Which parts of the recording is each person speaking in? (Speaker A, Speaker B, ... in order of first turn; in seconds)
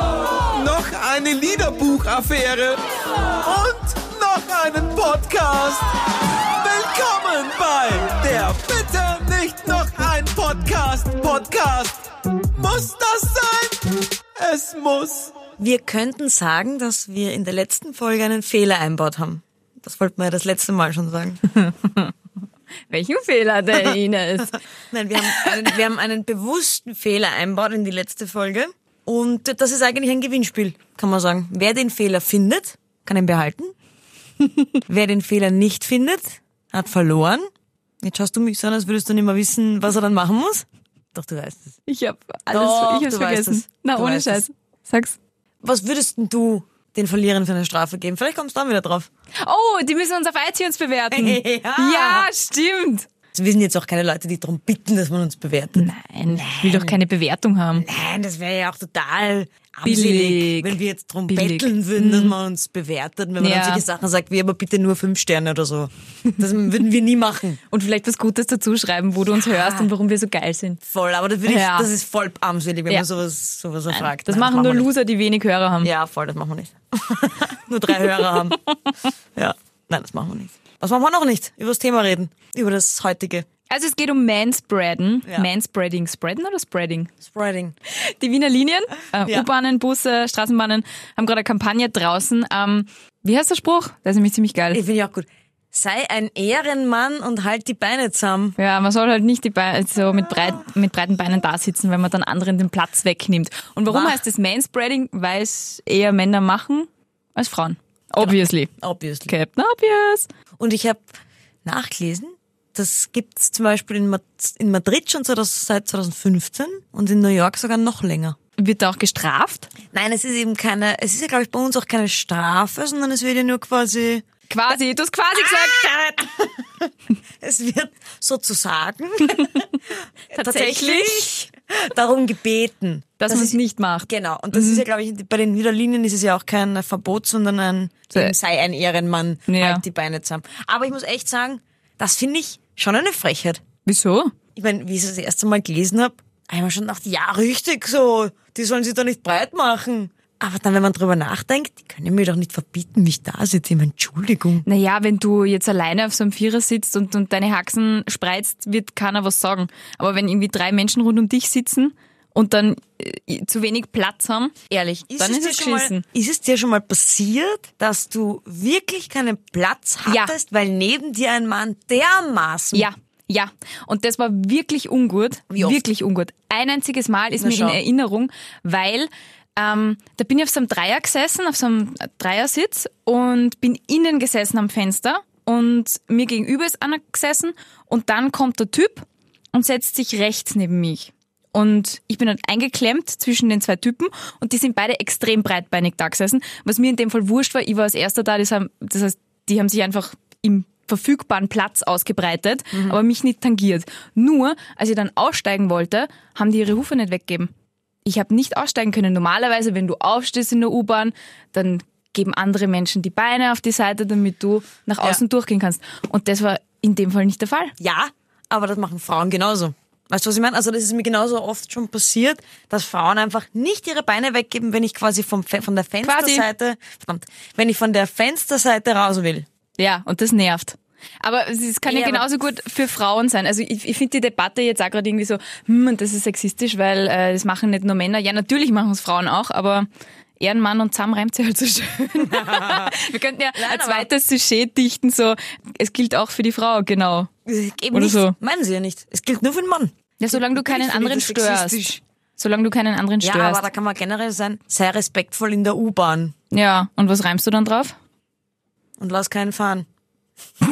Speaker A: 0.3-2.8, 3.4-15.4
Speaker B: 15.6-21.4, 24.9-33.7, 34.9-37.5, 38.0-41.7, 42.5-44.4, 45.6-49.1, 51.1-52.3, 53.3-57.0, 57.8-67.6, 69.3-69.9, 70.9-74.9, 75.8-78.6, 79.3-83.5, 87.2-87.7, 89.2-89.5, 94.7-98.5, 103.9-104.2, 108.2-109.3, 110.6-111.0, 111.6-118.4, 119.9-124.2, 125.3-143.6, 144.5-154.7, 164.7-172.9, 175.5-175.8, 177.4-177.8, 202.7-203.0, 217.8-229.5, 231.9-232.3, 242.2-243.0, 243.6-244.1, 247.5-252.0, 253.2-256.4, 259.0-259.9
Speaker C: 21.5-22.1, 22.9-24.6, 25.1-25.6, 41.9-45.2, 49.4-53.1, 55.7-57.9, 59.8-60.8, 61.3-62.3, 63.4-63.8, 67.7-70.8, 71.5-71.9, 73.9-75.9, 83.7-87.1, 87.9-94.8, 98.6-108.7, 109.3-110.3, 118.6-119.7, 124.5-125.9, 129.3-129.7, 130.3-131.3, 133.2-134.8, 139.5-139.8, 143.8-144.3, 154.7-166.0, 170.1-170.3, 172.7-207.5, 208.0-217.7, 226.0-226.5, 229.8-239.9, 240.4-247.3, 247.9-248.3, 250.2-253.7, 256.5-258.0